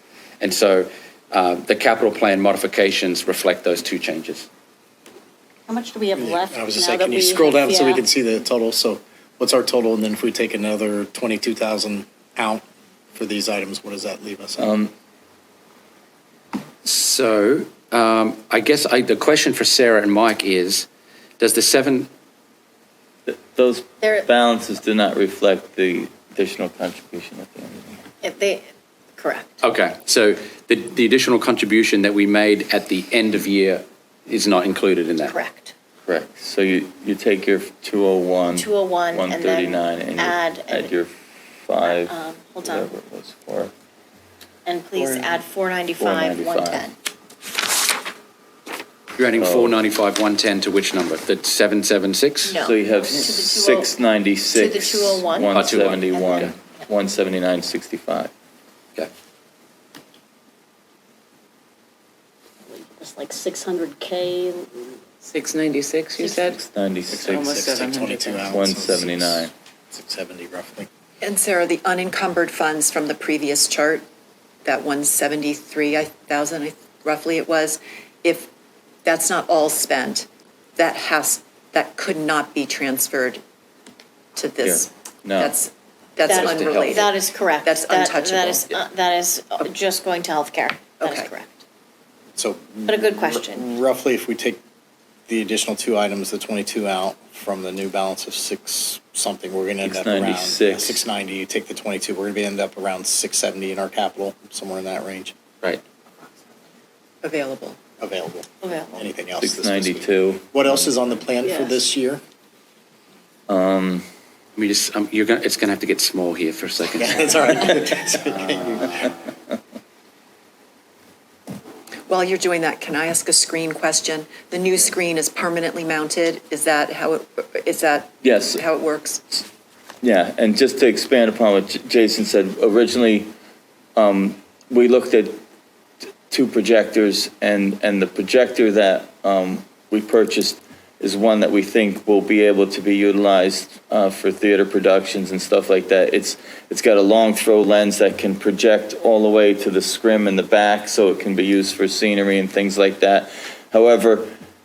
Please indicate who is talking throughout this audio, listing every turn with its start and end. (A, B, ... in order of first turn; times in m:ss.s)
0:00.4-0:04.5 A
0:05.7-0:08.0 B
0:06.2-0:14.8 C
0:14.6-0:14.9 D
0:16.8-0:20.9 A
0:21.4-0:22.1 A
0:23.3-0:27.9 D
0:24.0-0:24.3 E
0:28.2-0:29.6 E
0:29.6-0:35.4 A
0:35.2-0:35.7 E
0:36.1-0:41.1 D
0:38.5-0:40.9 E
0:41.6-0:43.7 D
0:41.8-0:42.9 E
0:44.6-0:47.0 E
0:45.0-0:45.4 F
0:46.0-0:46.9 D
0:49.2-0:52.6 A
0:49.3-0:49.8 D
0:52.4-0:53.9 E
0:52.6-0:58.3 D
0:54.5-0:55.5 E
0:55.5-0:56.5 A
0:56.1-0:56.7 E
1:02.7-1:04.9 B
1:05.2-1:06.6 F
1:06.2-1:07.5 D
1:07.1-1:10.9 C
1:07.2-1:08.5 F
1:08.5-1:09.5 D
1:11.2-1:14.0 G
1:14.6-1:18.5 G
1:19.0-1:23.4 G
1:24.3-1:27.1 G
1:24.6-1:25.5 D
1:26.2-1:27.0 A
1:26.2-1:31.6 E
1:27.6-1:28.7 G
1:31.0-1:31.3 G
1:32.4-1:34.6 C
1:32.9-1:33.7 E
1:35.3-1:45.3 C
1:39.8-1:41.0 D
1:47.2-1:47.8 G
1:48.0-1:52.2 C
1:48.6-1:49.0 E
1:49.4-1:50.8 D
1:51.4-1:51.8 E
1:53.5-1:54.0 D
1:54.6-1:59.1 A
1:57.0-1:59.0 C
2:02.1-2:09.4 G
2:08.2-2:08.6 D
2:10.0-2:13.3 D
2:14.0-2:15.4 D
2:16.3-2:34.3 D